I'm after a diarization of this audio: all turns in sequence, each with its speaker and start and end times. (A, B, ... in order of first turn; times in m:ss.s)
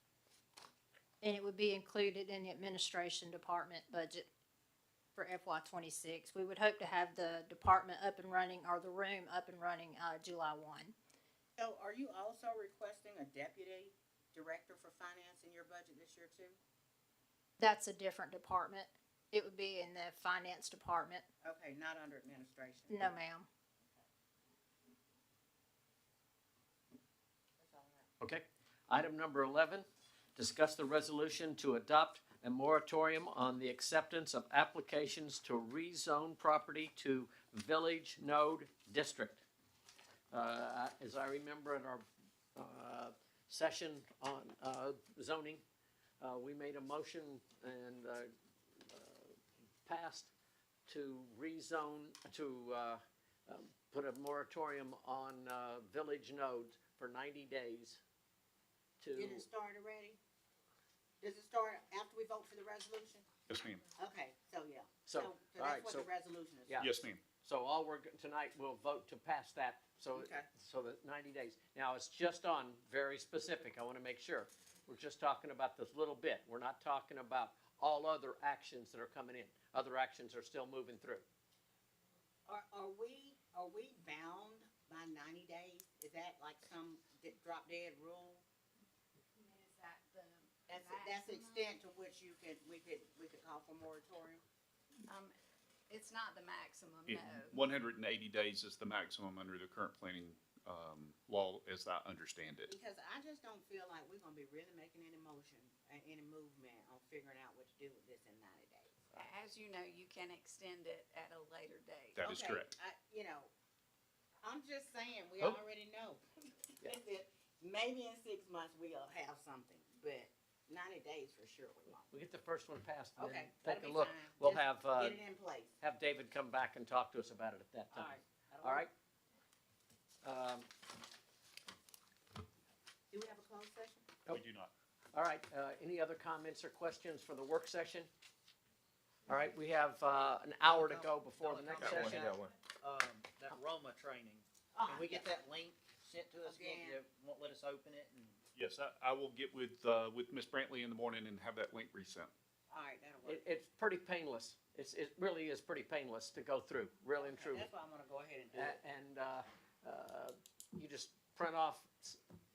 0:01.2-0:04.3 A
0:05.1-0:10.9 A
0:11.6-0:16.6 B
0:17.6-0:21.2 A
0:21.4-0:23.0 B
0:22.9-0:23.5 A
0:27.6-0:28.1 B
0:28.2-0:29.8 C
0:30.4-0:39.4 C
0:40.3-0:45.6 C
0:46.2-0:48.3 C
0:48.8-0:49.3 C
0:49.8-0:50.3 C
0:50.9-0:58.0 C
0:59.0-0:59.4 C
0:59.1-1:00.2 B
1:01.2-1:03.2 B
1:03.5-1:03.8 D
1:03.9-1:06.9 B
1:05.1-1:06.0 C
1:06.8-1:07.2 D
1:07.4-1:21.2 C
1:10.1-1:10.5 B
1:22.5-1:28.4 B
1:29.4-1:31.7 E
1:30.7-1:34.4 B
1:35.1-1:35.3 E
1:35.9-1:37.6 E
1:37.0-1:42.7 D
1:42.6-1:49.1 B
1:49.1-1:52.2 E
1:52.2-1:52.7 D
1:52.2-1:53.5 B
1:54.4-2:02.1 B
2:02.1-2:05.2 C
2:03.2-2:05.7 B
2:05.8-2:08.9 C
2:07.9-2:08.9 B
2:10.2-2:10.7 C
2:13.1-2:14.0 B
2:14.3-2:14.7 D
2:15.1-2:18.1 C
2:19.3-2:22.4 C
2:20.6-2:28.4 F
2:21.8-2:22.2 D
2:24.8-2:25.3 B
2:26.4-2:27.0 B
2:28.5-2:32.3 D
2:32.7-2:33.4 B
2:33.2-2:37.7 C
2:37.2-2:38.8 B
2:38.5-2:42.2 C